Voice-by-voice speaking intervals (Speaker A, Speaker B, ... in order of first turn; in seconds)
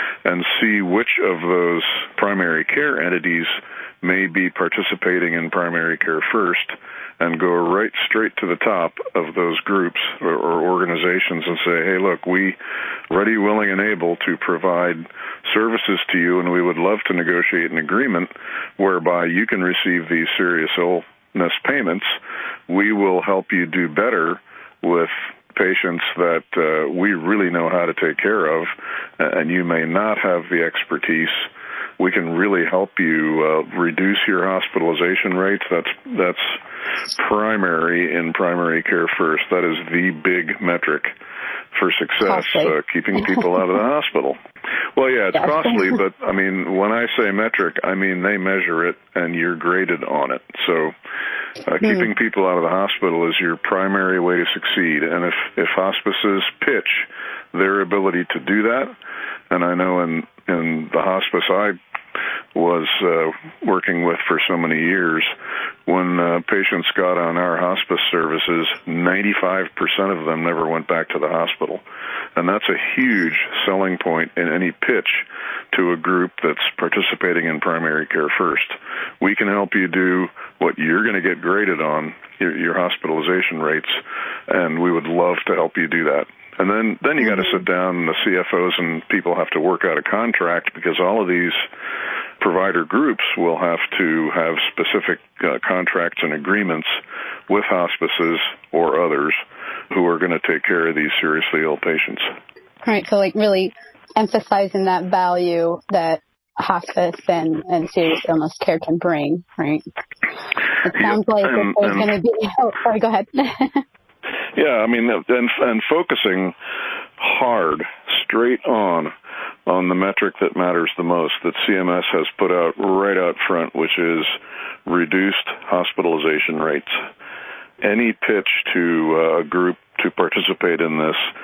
Speaker A: 0.2-12.6, 13.1-22.2, 22.7-31.5, 32.0-41.1, 41.7-44.4, 45.0-51.0, 51.6-58.9, 59.5-61.8, 62.5-65.3, 65.9-71.8, 72.4-91.6, 92.4-99.4, 99.9-102.3, 110.9-112.1, 114.5-116.5, 117.2-119.1, 119.7-127.0, 127.8-131.3
Speaker B: 42.2-42.8, 45.4-45.9, 102.9-109.8, 110.8-113.8